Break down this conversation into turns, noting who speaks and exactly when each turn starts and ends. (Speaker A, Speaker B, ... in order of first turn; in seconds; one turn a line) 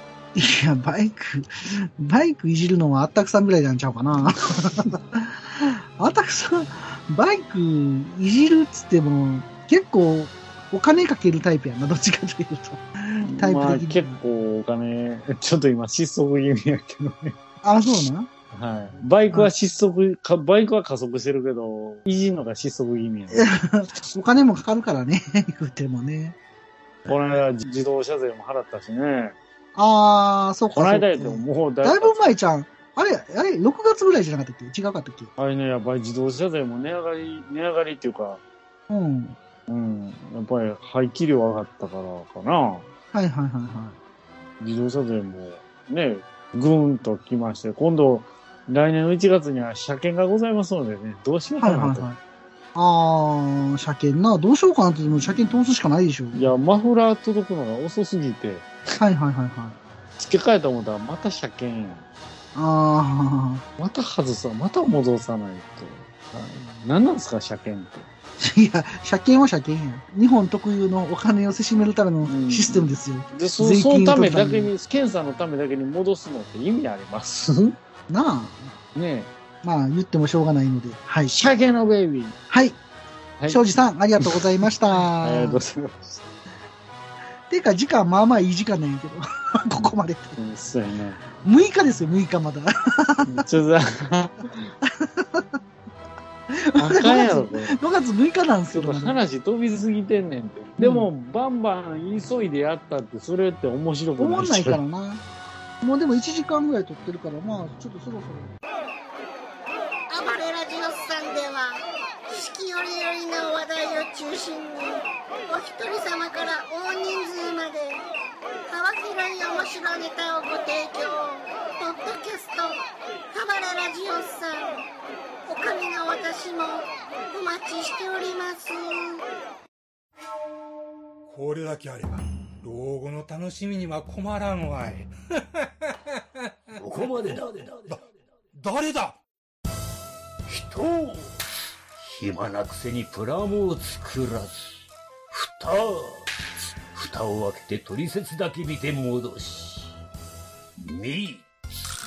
Speaker A: 0.3-14.2
Speaker B: 13.2-17.4
Speaker A: 17.6-18.3
Speaker B: 18.5-23.5
Speaker A: 23.3-26.4
Speaker B: 27.1-29.4
Speaker A: 29.7-35.3
Speaker B: 30.7-32.3
Speaker B: 35.4-38.4
Speaker A: 38.9-39.4
Speaker B: 39.7-42.9
Speaker A: 43.1-44.0
Speaker B: 44.6-52.1
Speaker A: 51.6-52.2
Speaker A: 52.7-56.4
Speaker B: 56.3-58.7
Speaker A: 59.0-59.8
Speaker B: 60.2-62.1
Speaker A: 62.5-63.6
Speaker B: 63.8-68.1
Speaker A: 68.4-74.7
Speaker B: 72.2-77.8
Speaker A: 78.1-78.8
Speaker B: 78.9-79.3
Speaker A: 79.6-81.4
Speaker B: 81.3-82.4
Speaker A: 82.5-82.8
Speaker A: 83.5-85.6
Speaker B: 85.2-86.2
Speaker A: 87.5-90.3
Speaker B: 90.4-91.2
Speaker A: 91.4-93.4
Speaker B: 93.2-94.5
Speaker A: 94.8-95.5
Speaker A: 96.5-99.2
Speaker B: 96.8-97.8
Speaker B: 98.7-104.8
Speaker A: 100.8-101.1
Speaker A: 104.2-105.2
Speaker A: 105.8-108.5
Speaker C: 110.1-118.0
Speaker C: 118.7-124.8
Speaker C: 125.4-129.2
Speaker D: 131.3-136.8
Speaker E: 136.8-138.0
Speaker D: 138.5-139.2
Speaker E: 140.5-141.3
Speaker E: 142.0-144.8
Speaker E: 145.3-149.9
Speaker E: 150.8-151.5